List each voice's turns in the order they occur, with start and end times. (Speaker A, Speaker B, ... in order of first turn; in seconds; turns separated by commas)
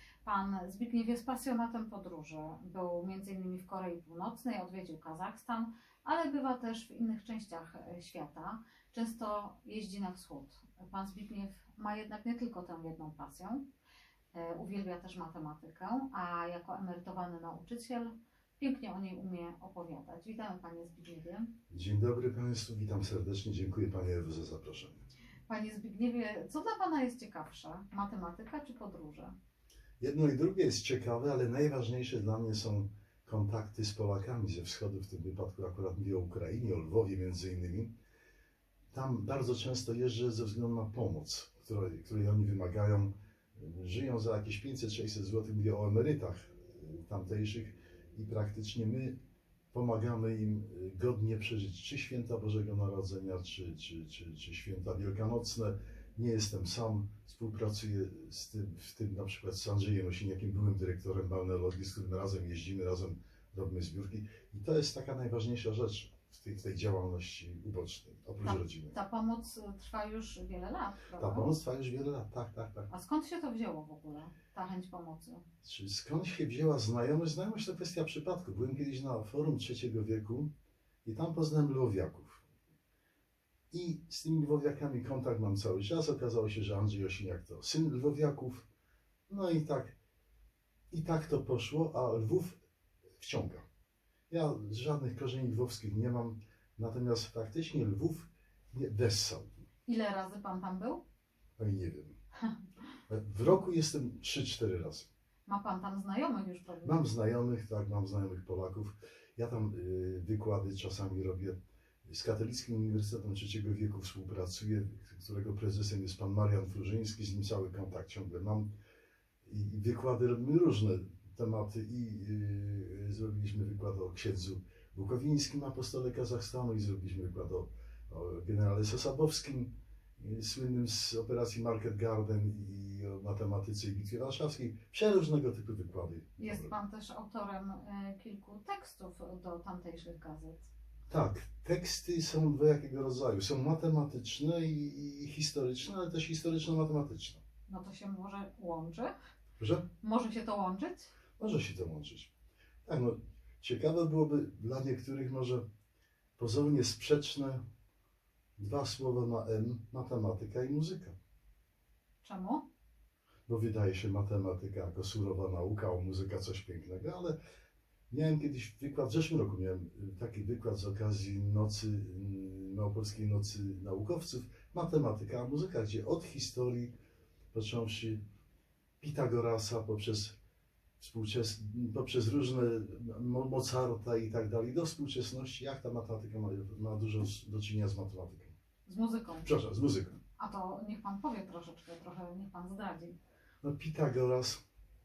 Speaker A: 0.2-13.6, Speaker A: 14.3-21.5, Speaker B: 21.7-25.0, Speaker A: 25.5-29.3, Speaker B: 30.0-37.9, Speaker B: 38.9-49.1, Speaker B: 49.7-69.0, Speaker A: 68.4-71.5, Speaker B: 71.2-72.9, Speaker A: 72.9-75.4, Speaker B: 75.6-80.5, Speaker B: 81.0-82.4, Speaker B: 83.7-88.7, Speaker B: 89.3-89.9, Speaker B: 90.9-92.6, Speaker B: 93.2-93.6, Speaker B: 94.3-99.6, Speaker A: 99.8-101.0, Speaker B: 101.6-102.1, Speaker B: 103.1-105.1, Speaker A: 105.5-107.0, Speaker B: 106.8-118.7, Speaker B: 119.4-136.7, Speaker A: 136.4-140.7, Speaker B: 141.1-147.4, Speaker A: 147.7-149.1, Speaker B: 149.6-149.8, Speaker A: 150.0-151.1, Speaker B: 151.4-152.3, Speaker B: 152.8-155.6, Speaker B: 156.4-157.6, Speaker B: 158.6-161.1, Speaker A: 162.2-162.7, Speaker B: 163.5-167.3, Speaker B: 168.1-176.9, Speaker B: 177.5-178.2, Speaker B: 179.0-180.3, Speaker B: 181.0-188.5, Speaker A: 188.8-189.5, Speaker B: 189.4-190.2, Speaker A: 190.4-193.2, Speaker B: 193.6-194.6